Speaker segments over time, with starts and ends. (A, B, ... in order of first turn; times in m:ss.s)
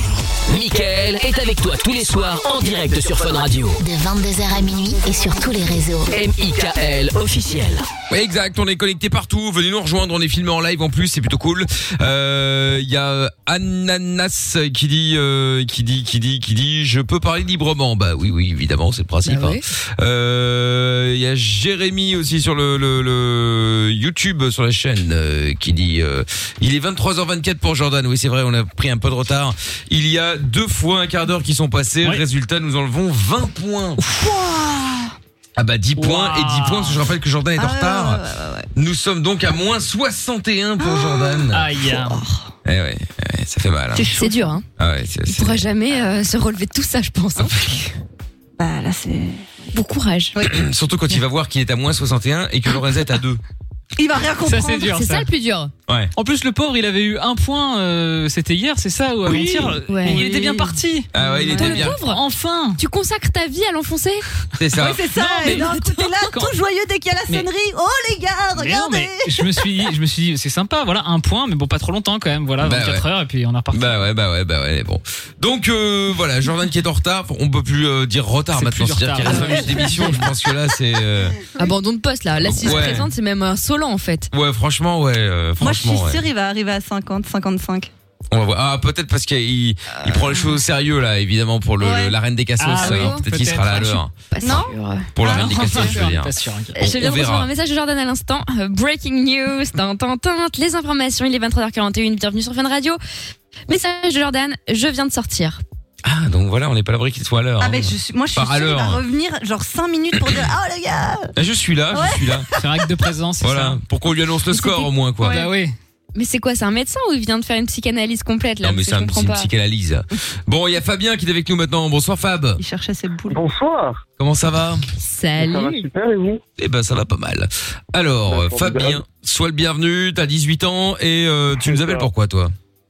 0:00.5-0:03.8 A
0:03.8-0:06.1 B
0:06.1-0:07.9 A
0:08.1-0:34.0 C
0:19.2-0:19.6 D
0:34.0-0:35.1 E
0:35.6-0:38.2 C
0:36.0-0:37.0 F
0:37.6-0:38.7 E
0:38.8-0:41.7 C
0:40.8-0:42.5 E
0:41.5-0:42.2 F
0:42.6-0:44.1 C
0:43.9-0:44.6 E
0:44.2-0:44.6 D
0:44.8-0:45.7 C
0:45.3-0:48.0 D
0:48.6-0:49.7 E
0:49.7-0:50.4 D
0:50.4-0:53.4 C
0:54.0-0:54.9 E
0:54.4-0:55.3 F
0:54.9-0:55.7 D
0:56.2-1:02.8 F
0:59.2-0:59.8 C
0:59.9-1:02.2 D
1:01.1-1:02.0 C
1:02.8-1:04.3 D
1:04.6-1:05.0 C
1:04.8-1:09.6 E
1:05.1-1:06.5 F
1:05.5-1:06.0 D
1:08.6-1:14.0 F
1:12.6-1:13.0 C
1:13.7-1:21.4 C
1:18.6-1:20.2 F
1:19.3-1:19.7 E
1:21.6-1:24.3 D
1:22.4-1:23.1 C
1:24.3-1:26.2 C
1:25.6-1:27.9 E
1:28.3-1:34.1 C
1:31.8-1:32.2 E
1:32.6-1:34.0 F
1:32.8-1:33.2 D
1:34.3-1:35.1 D
1:34.4-1:34.7 E
1:35.1-1:37.5 C
1:35.2-1:36.8 F
1:35.2-1:35.9 E
1:36.8-1:43.0 D
1:43.7-1:45.6 D
1:46.0-1:49.0 C
1:47.6-1:51.3 E
1:51.4-1:52.5 C
1:51.9-1:52.8 E
1:52.6-1:53.8 F
1:53.4-1:55.4 C
1:54.5-1:55.4 D
1:55.3-1:55.8 F
1:56.2-1:59.5 D
1:58.6-2:02.6 C
2:02.6-2:03.4 E
2:03.3-2:04.0 G
2:04.2-2:04.8 C
2:05.0-2:05.8 D
2:05.4-2:06.4 G
2:06.6-2:12.5 C
2:08.3-2:09.0 G
2:11.5-2:12.1 G